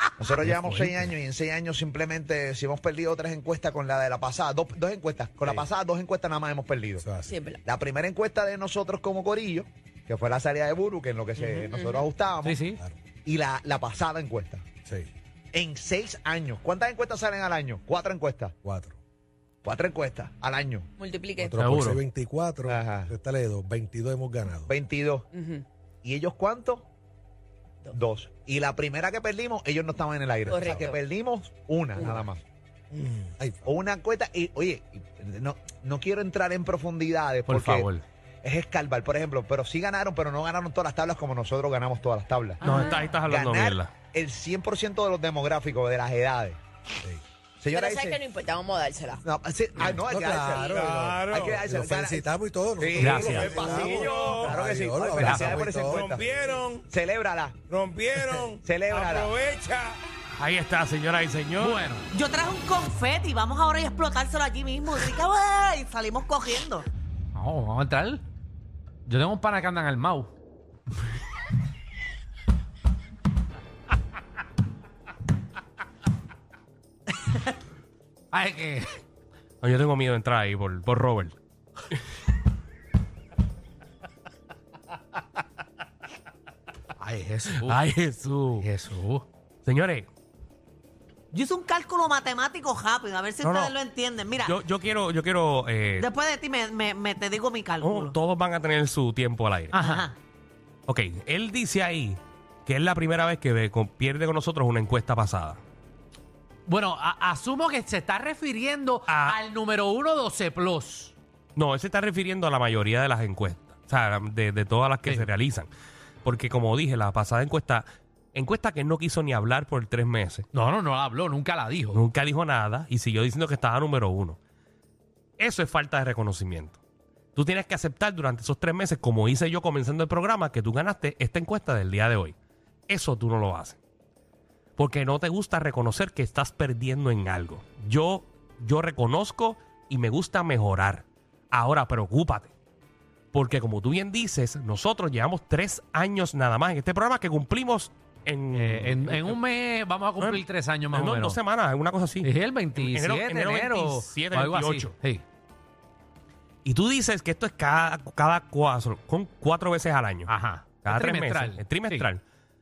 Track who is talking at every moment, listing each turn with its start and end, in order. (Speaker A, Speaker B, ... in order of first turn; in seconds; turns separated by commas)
Speaker A: 0.2-7.1, Speaker B: 0.4-0.8, Speaker B: 7.0-7.3, Speaker C: 7.2-7.6, Speaker A: 7.7-12.6, Speaker C: 11.6-12.1, Speaker D: 12.4-12.8, Speaker A: 13.2-14.7, Speaker A: 15.5-18.5, Speaker B: 18.6-18.9, Speaker A: 19.6-20.9, Speaker C: 21.0-21.6, Speaker B: 21.4-24.7, Speaker D: 21.6-22.0, Speaker A: 22.7-23.1, Speaker A: 24.7-25.3, Speaker C: 25.3-25.6, Speaker A: 26.0-26.9, Speaker A: 27.9-32.4, Speaker C: 30.5-31.0, Speaker C: 31.9-32.2, Speaker B: 32.9-33.7, Speaker A: 33.6-37.9, Speaker D: 37.5-38.0, Speaker A: 38.4-46.6, Speaker E: 42.6-43.9, Speaker C: 42.6-43.1, Speaker A: 47.6-48.2, Speaker C: 47.7-49.2, Speaker A: 49.2-57.6, Speaker B: 49.8-56.8, Speaker D: 53.0-53.5, Speaker D: 55.2-55.6, Speaker B: 57.7-60.0, Speaker A: 58.6-59.3, Speaker E: 60.3-61.8, Speaker D: 61.6-62.1, Speaker F: 62.1-66.9, Speaker D: 67.3-68.2, Speaker D: 69.1-70.3, Speaker D: 78.3-79.0, Speaker E: 79.6-81.3, Speaker D: 87.0-87.8, Speaker E: 87.7-88.7, Speaker D: 88.6-89.2, Speaker E: 89.7-90.1, Speaker F: 91.3-94.5, Speaker E: 93.4-93.7, Speaker E: 94.4-96.1, Speaker F: 96.0-98.2, Speaker E: 97.8-99.8, Speaker D: 99.7-100.1, Speaker F: 99.8-100.2, Speaker E: 100.9-105.6, Speaker D: 106.7-111.2, Speaker E: 109.1-109.4, Speaker E: 111.6-115.7, Speaker D: 115.0-115.3, Speaker E: 116.2-120.4, Speaker D: 120.5-122.0, Speaker E: 121.9-124.4, Speaker E: 125.4-126.8, Speaker E: 127.3-132.4, Speaker E: 132.9-133.8, Speaker E: 134.8-142.5, Speaker E: 143.3-149.4, Speaker D: 148.5-151.4, Speaker E: 150.2-154.9, Speaker D: 152.2-155.2, Speaker E: 156.7-160.3, Speaker D: 160.3-162.1, Speaker E: 160.8-162.2